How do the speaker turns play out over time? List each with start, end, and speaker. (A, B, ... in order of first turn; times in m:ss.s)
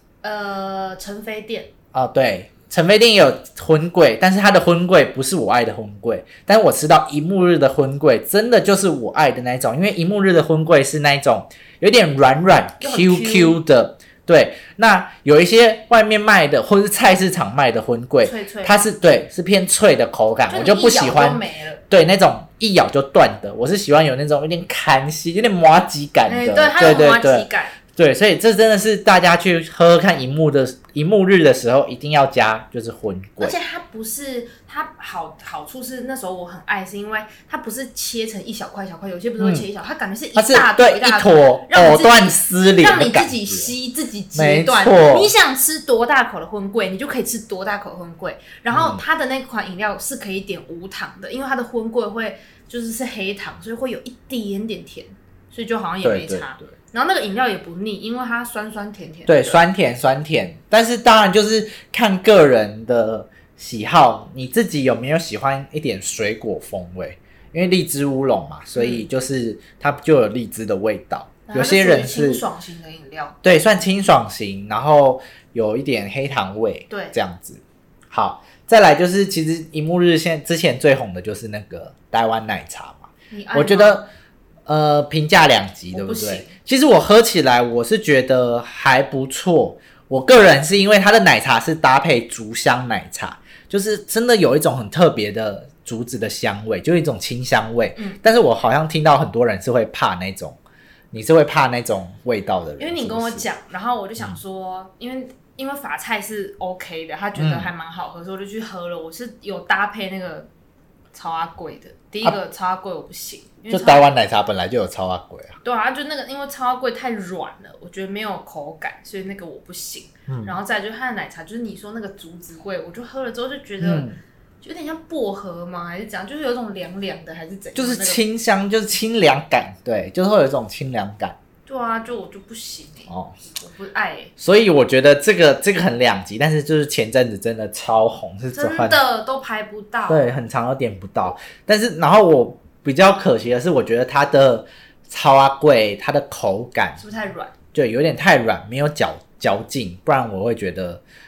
0:00.2-0:01.7 A
0:01.9-0:33.6 B
0:12.8-0:13.6 A
0:18.2-0:18.8 A
0:20.5-0:21.8 A
0:26.3-0:27.8 A
0:33.4-0:59.6 A
0:39.4-0:39.6 B
0:40.4-0:43.7 B
0:44.3-0:45.3 B
0:48.7-0:49.0 B
0:56.0-0:56.7 B
0:59.3-1:12.4 B
1:08.7-1:09.0 A
1:11.5-1:13.4 A
1:13.4-1:24.1 B
1:16.9-1:17.2 A
1:23.3-1:24.0 A
1:24.7-1:40.6 B
1:25.9-1:26.5 A
1:41.1-1:43.4 B
1:42.8-1:50.5 A
1:47.4-1:47.7 B
1:51.1-1:54.1 A
1:53.7-1:55.6 B
1:55.6-2:04.1 A
2:00.3-2:00.6 B
2:03.8-2:04.2 B
2:04.6-2:08.2 A
2:07.7-2:11.4 B
2:11.6-2:14.3 A
2:13.1-2:13.4 B
2:14.4-2:19.0 B
2:18.5-2:20.3 A
2:20.1-2:27.0 B
2:27.0-2:27.5 A
2:27.7-2:31.0 B